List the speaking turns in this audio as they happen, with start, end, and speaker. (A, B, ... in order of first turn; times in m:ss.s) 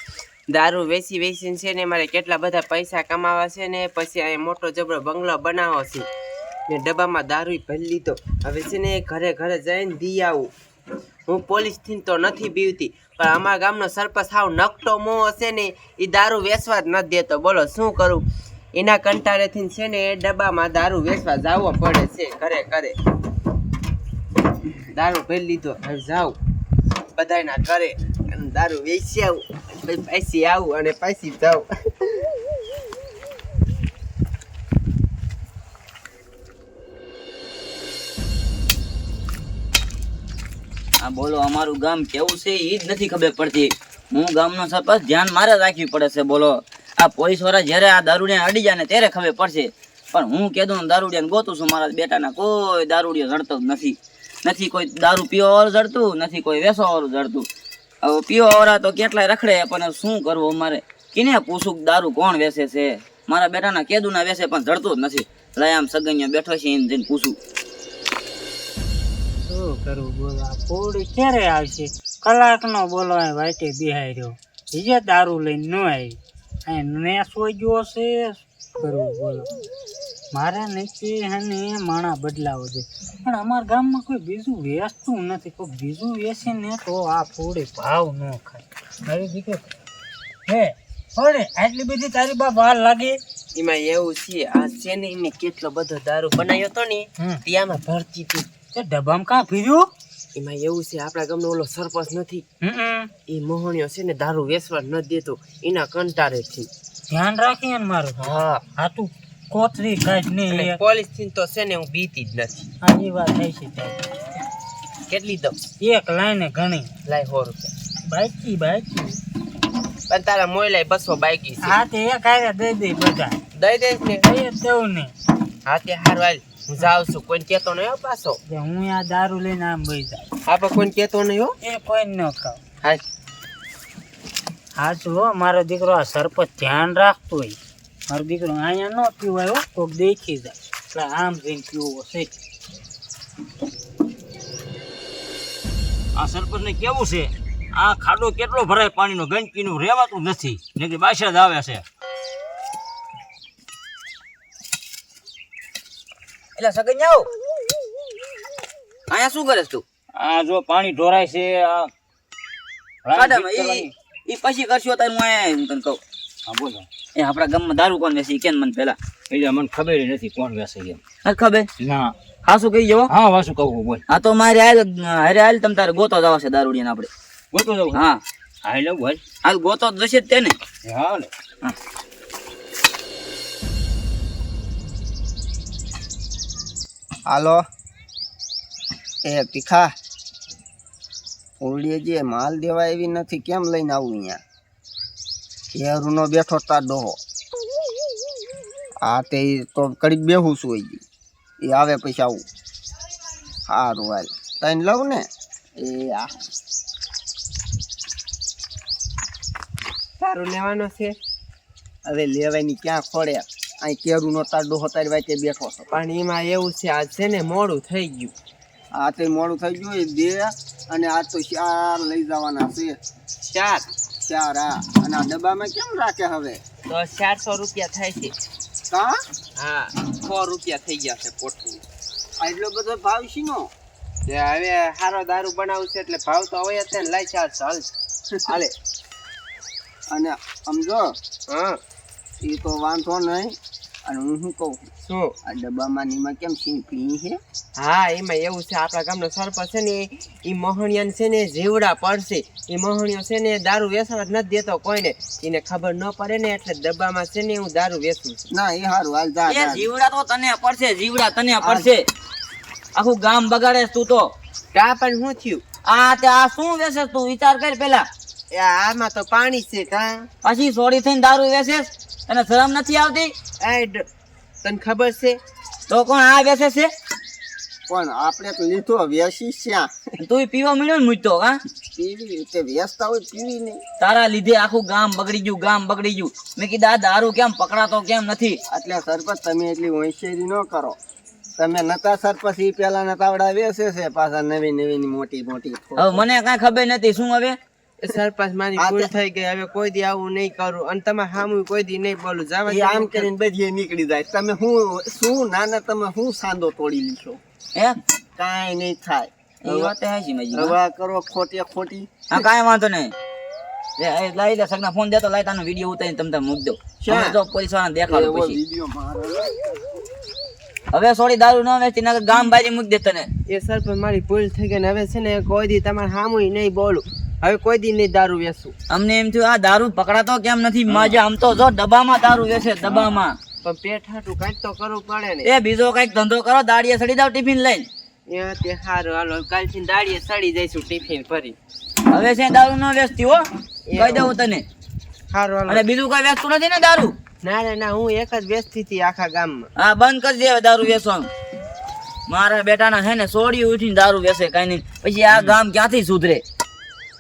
0:00.5-0:06.1 A
0:06.7-0:10.5 A
0:11.3-0:18.2 A
0:18.8-0:23.0 A
0:24.9-0:26.4 A
0:27.2-0:31.7 A
0:41.0-0:57.5 B
0:58.0-1:07.4 B
1:09.5-1:16.1 C
1:16.7-1:19.5 C
1:20.4-1:29.7 C
1:31.2-1:33.1 C
1:33.6-1:38.5 A
1:38.7-1:39.8 C
1:40.4-1:42.4 A
1:42.7-1:43.0 C
1:43.3-1:46.7 A
1:47.3-1:48.2 C
1:48.2-1:48.6 A
1:49.7-1:50.8 C
1:50.5-1:52.7 A
1:52.8-1:53.9 C
1:55.1-1:55.6 A
1:55.9-1:56.8 C
1:57.1-1:57.7 A
1:58.2-1:59.0 C
2:00.1-2:01.8 A
2:01.6-2:03.2 C
2:03.6-2:04.3 A
2:04.2-2:05.0 C
2:05.7-2:08.4 A
2:08.5-2:10.2 C
2:10.5-2:11.6 A
2:11.6-2:12.6 C
2:14.9-2:17.4 C
2:18.1-2:22.3 C
2:26.2-2:31.8 D
2:27.8-2:28.8 B
2:30.3-2:31.8 B
2:36.6-2:37.3 B
2:39.1-2:39.8 B
2:40.2-2:41.9 D
2:43.0-2:43.9 D
2:43.2-2:46.0 B
2:46.5-2:46.9 D
2:47.2-2:49.0 B
2:49.3-2:51.0 D
2:51.2-2:51.7 B
2:51.8-2:52.1 D
2:52.5-2:53.1 B
2:53.1-2:54.0 D
2:54.1-2:57.1 B
2:57.5-2:58.0 D
2:57.9-2:58.2 B
2:58.6-2:59.2 D
2:59.4-3:00.6 B
3:00.8-3:01.3 D
3:07.3-3:07.6 E
3:09.2-3:09.9 E
3:11.6-3:14.4 E
3:15.7-3:17.2 E
3:19.0-3:21.0 E
3:21.6-3:22.4 E
3:23.7-3:26.4 E
3:30.2-3:31.2 A
3:32.0-3:35.9 E
3:35.9-3:38.3 A
3:39.0-3:43.0 E
3:43.4-3:43.9 A
3:44.2-3:46.6 E
3:46.9-3:48.3 A
3:48.9-3:49.2 E
3:49.6-3:51.8 A
3:52.4-3:53.7 E
3:54.3-3:57.9 A
3:58.5-3:58.7 A
4:00.1-4:01.2 E
4:01.5-4:01.8 A
4:02.4-4:04.9 E
4:05.0-4:05.4 A
4:05.4-4:07.4 E
4:07.8-4:18.4 A
4:18.5-4:19.9 E
4:19.5-4:22.0 B
4:21.6-4:21.9 E
4:23.0-4:24.3 B
4:24.7-4:25.6 A
4:25.9-4:28.1 B
4:28.5-4:30.3 A
4:30.4-4:33.3 B
4:33.6-4:34.0 A
4:34.6-4:35.4 A
4:35.9-4:36.9 B
4:37.9-4:39.9 E
4:40.2-4:41.6 B
4:42.0-4:43.8 E
4:44.0-4:48.6 B
4:48.7-4:51.0 E
4:51.6-4:56.3 E
4:56.0-4:57.6 B
4:58.0-5:03.3 A
4:58.8-4:59.1 E
5:02.7-5:07.4 E
5:08.4-5:09.9 E
5:09.6-5:10.8 B
5:10.5-5:12.4 E
5:12.3-5:13.1 B
5:14.0-5:18.6 B
5:17.0-5:17.4 E
5:18.1-5:19.8 E
5:20.9-5:23.3 B
5:23.5-5:28.7 A
5:28.9-5:33.4 B
5:33.6-5:35.5 A
5:35.4-5:37.9 B
5:38.3-5:41.6 A
5:42.1-5:43.4 B
5:43.9-5:44.3 A
5:44.0-5:44.6 B
5:45.3-5:45.9 A
5:45.7-5:47.2 B
5:47.4-5:49.7 A
5:49.8-5:51.3 B
5:52.3-5:56.4 B